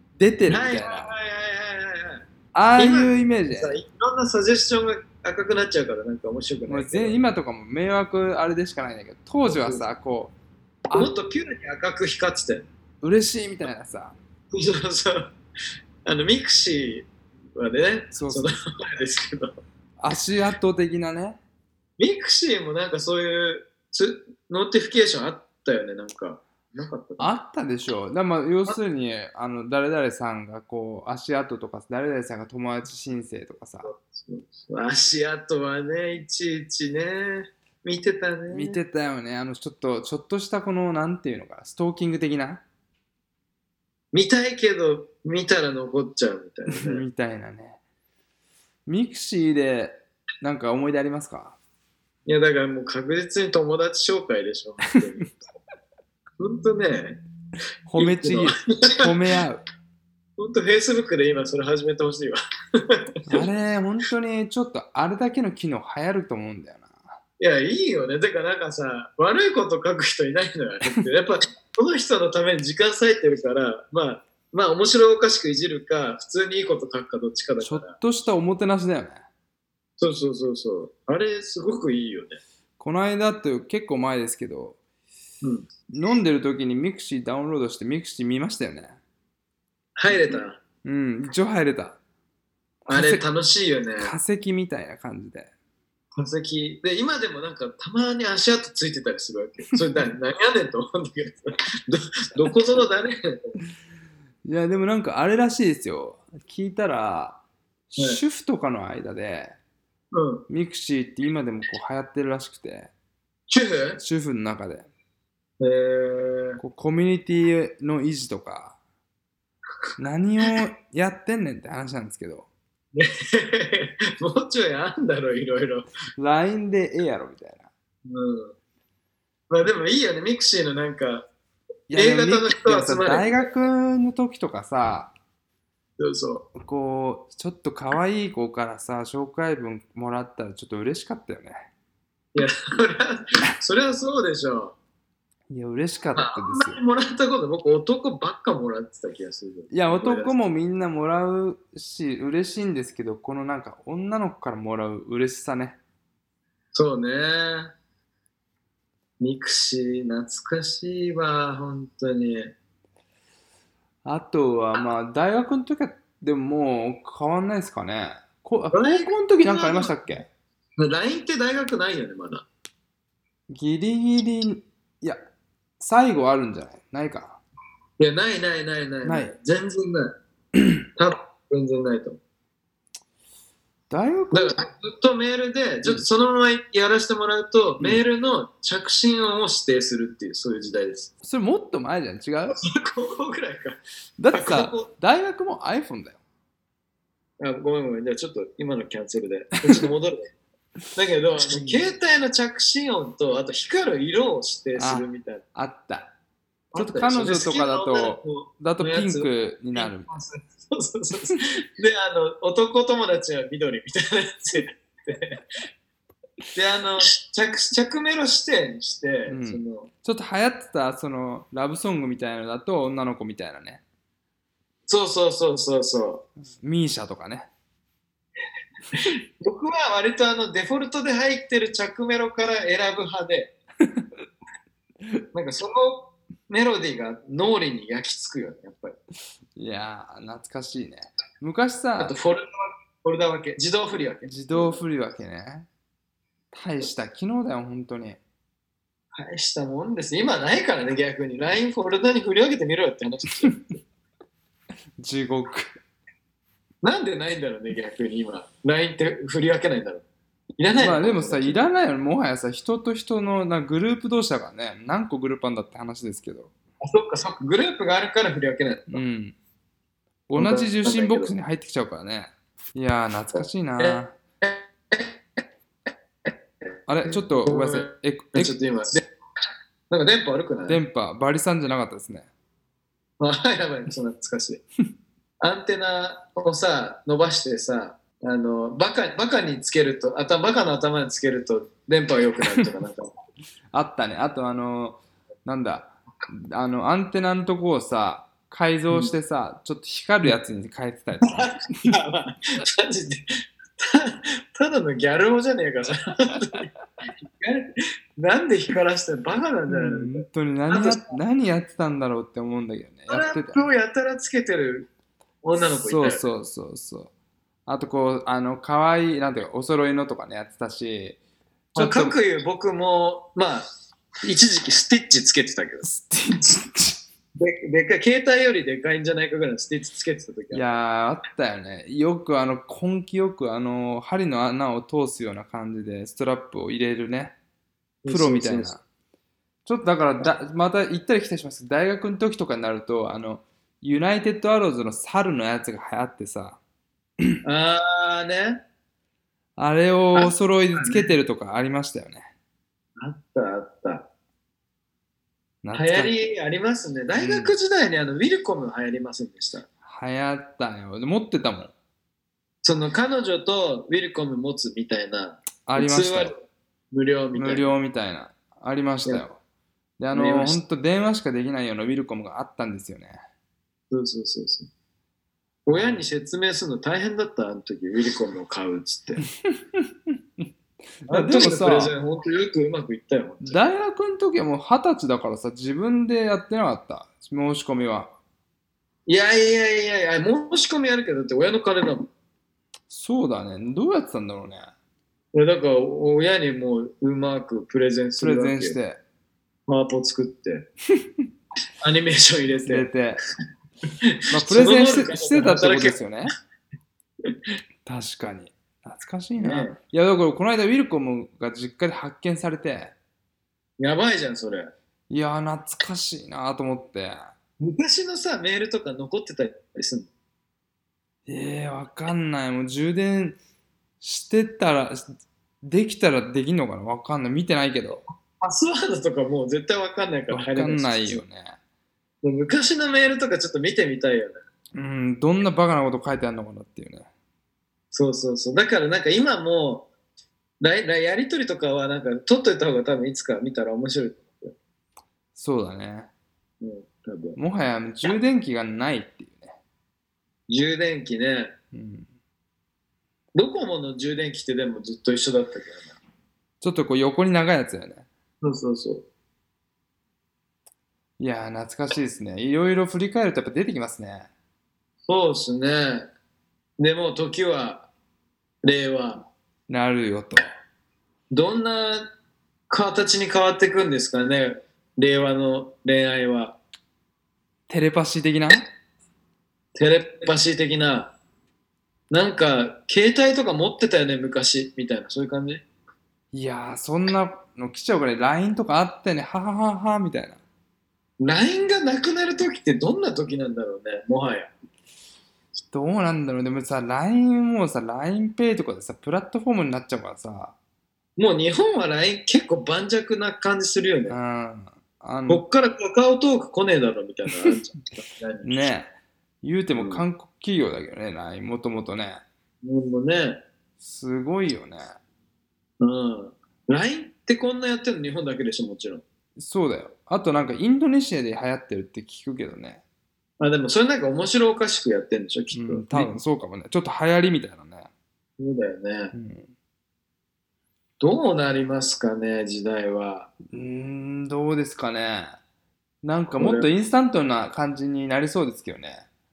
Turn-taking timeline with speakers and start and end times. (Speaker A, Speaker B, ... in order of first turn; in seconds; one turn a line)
Speaker A: 0.2-1.1
Speaker B: 0.5-2.2
Speaker A: 2.5-3.8
Speaker B: 2.8-7.2
Speaker A: 6.7-10.3
Speaker B: 9.4-9.8
Speaker A: 10.9-11.1
Speaker B: 10.9-12.7
Speaker A: 13.0-14.2
Speaker B: 14.5-15.3
Speaker B: 16.0-19.6
Speaker A: 18.1-18.5
Speaker A: 20.0-21.4
Speaker B: 22.0-27.3
Speaker A: 27.2-33.9
Speaker B: 33.8-38.8
Speaker A: 38.5-42.6
Speaker B: 44.1-47.0
Speaker A: 46.7-47.8
Speaker A: 48.9-51.6
Speaker B: 52.2-55.5
Speaker B: 56.4-57.2
Speaker A: 57.9-59.6
Speaker B: 58.0-59.1
Speaker B: 60.4-63.5
Speaker A: 63.3-67.1
Speaker B: 67.4-78.0
Speaker A: 77.6-79.2
Speaker B: 80.0-82.4
Speaker A: 82.8-84.8
Speaker B: 85.4-85.7
Speaker A: 85.9-89.0
Speaker B: 90.0-90.6
Speaker A: 90.1-92.0
Speaker A: 92.8-93.2
Speaker B: 92.9-94.1
Speaker A: 94.0-95.5
Speaker B: 96.1-103.6
Speaker A: 104.4-109.5
Speaker B: 110.1-110.4
Speaker A: 110.5-112.9
Speaker B: 113.5-114.0
Speaker A: 114.0-114.9
Speaker B: 115.6-116.6
Speaker A: 116.6-118.8
Speaker A: 120.0-122.5
Speaker B: 122.9-125.8
Speaker A: 126.2-127.7
Speaker B: 128.1-128.5
Speaker B: 129.5-131.3
Speaker A: 131.9-135.1
Speaker B: 131.9-133.5
Speaker B: 136.0-136.5
Speaker A: 136.5-141.7
Speaker B: 142.3-144.8
Speaker A: 145.5-146.8
Speaker B: 146.2-150.3
Speaker A: 149.7-155.8
Speaker B: 156.7-157.7
Speaker B: 159.2-162.5
Speaker A: 164.0-170.3
Speaker B: 168.7-170.0
Speaker B: 170.8-172.5
Speaker A: 173.5-175.2
Speaker A: 175.8-177.4
Speaker B: 178.0-180.1
Speaker A: 179.0-179.3
Speaker B: 180.9-182.2
Speaker A: 183.9-184.6
Speaker B: 184.3-191.1
Speaker A: 191.2-192.6
Speaker B: 192.5-193.8
Speaker A: 194.2-196.2
Speaker B: 194.3-194.9
Speaker B: 197.4-200.3
Speaker B: 200.9-205.4
Speaker A: 201.5-201.8
Speaker A: 204.8-206.1
Speaker B: 206.7-215.4
Speaker A: 206.7-210.1
Speaker B: 216.5-219.9
Speaker A: 219.3-223.8
Speaker B: 224.9-226.2
Speaker A: 226.5-227.5
Speaker B: 228.9-233.5
Speaker B: 235.3-239.0
Speaker A: 239.5-242.1
Speaker B: 242.0-244.8
Speaker A: 244.2-245.7
Speaker A: 246.5-248.2
Speaker B: 249.1-253.8
Speaker A: 255.0-255.7
Speaker B: 256.8-260.0
Speaker B: 260.6-261.6
Speaker A: 260.8-266.5
Speaker B: 266.8-269.0
Speaker A: 268.9-269.3
Speaker A: 270.3-274.1
Speaker B: 270.4-271.3
Speaker B: 273.8-275.2
Speaker A: 276.9-278.6
Speaker B: 277.0-279.1
Speaker B: 279.9-280.8
Speaker A: 280.7-282.3
Speaker B: 283.2-284.6
Speaker B: 285.4-293.1
Speaker A: 293.7-301.9
Speaker B: 301.2-311.1
Speaker A: 309.7-313.6
Speaker B: 313.1-314.9
Speaker B: 315.4-316.2
Speaker A: 315.8-317.1
Speaker A: 317.7-321.2
Speaker A: 321.7-322.1
Speaker B: 321.7-323.7
Speaker B: 324.2-325.9
Speaker A: 325.8-327.0
Speaker B: 327.4-330.6
Speaker A: 330.5-337.3
Speaker B: 338.0-338.7
Speaker A: 338.1-338.8
Speaker A: 339.6-346.6
Speaker B: 347.4-348.6
Speaker A: 349.6-352.3
Speaker B: 350.1-351.1
Speaker B: 353.0-354.1
Speaker A: 355.6-356.1
Speaker B: 355.7-359.6
Speaker A: 357.1-357.5
Speaker A: 359.8-361.7
Speaker B: 362.6-367.7
Speaker A: 365.6-366.3
Speaker A: 367.3-369.4
Speaker A: 370.0-373.2
Speaker B: 370.1-370.6
Speaker B: 373.9-374.7
Speaker B: 375.6-379.2
Speaker A: 375.7-376.0
Speaker A: 379.4-380.1
Speaker A: 381.1-381.9
Speaker B: 381.1-383.6
Speaker A: 383.4-388.1
Speaker B: 389.1-392.1
Speaker A: 392.9-394.7
Speaker B: 395.3-398.8
Speaker A: 398.2-399.0
Speaker B: 399.7-400.7
Speaker B: 401.8-402.9
Speaker A: 402.6-403.2
Speaker B: 404.0-406.0
Speaker A: 404.3-406.3
Speaker A: 407.9-412.9
Speaker B: 409.4-409.8
Speaker B: 413.8-414.7
Speaker A: 415.1-417.3
Speaker B: 417.6-420.1
Speaker A: 421.3-423.4
Speaker A: 424.0-425.1
Speaker A: 425.6-428.0
Speaker B: 428.4-431.2
Speaker A: 430.3-431.6
Speaker B: 432.2-434.4
Speaker A: 434.7-437.1
Speaker B: 437.9-439.9
Speaker B: 440.6-444.6
Speaker A: 445.4-446.1
Speaker B: 446.6-447.4
Speaker A: 447.4-449.6
Speaker B: 450.5-451.5
Speaker A: 451.7-452.1
Speaker B: 453.3-456.0
Speaker A: 456.6-458.1
Speaker B: 458.4-459.0
Speaker A: 461.2-464.3
Speaker B: 465.1-466.1
Speaker B: 466.8-467.9
Speaker B: 468.6-469.3
Speaker A: 469.7-470.4
Speaker B: 471.3-472.1
Speaker B: 472.7-476.6
Speaker A: 477.7-478.6
Speaker B: 479.7-481.1
Speaker B: 482.1-485.6
Speaker A: 486.3-490.4
Speaker B: 491.2-494.5
Speaker A: 495.7-500.5
Speaker B: 501.2-504.2
Speaker A: 504.1-505.4
Speaker B: 505.3-508.7
Speaker A: 508.4-512.2
Speaker B: 509.7-510.0
Speaker B: 512.6-513.4
Speaker A: 513.8-515.0
Speaker B: 515.8-519.0
Speaker A: 519.4-522.8
Speaker B: 523.4-526.1
Speaker A: 525.5-527.9
Speaker B: 528.4-529.1
Speaker A: 529.1-529.5
Speaker B: 531.0-533.3
Speaker A: 533.5-535.4
Speaker A: 536.0-539.0
Speaker B: 536.4-536.7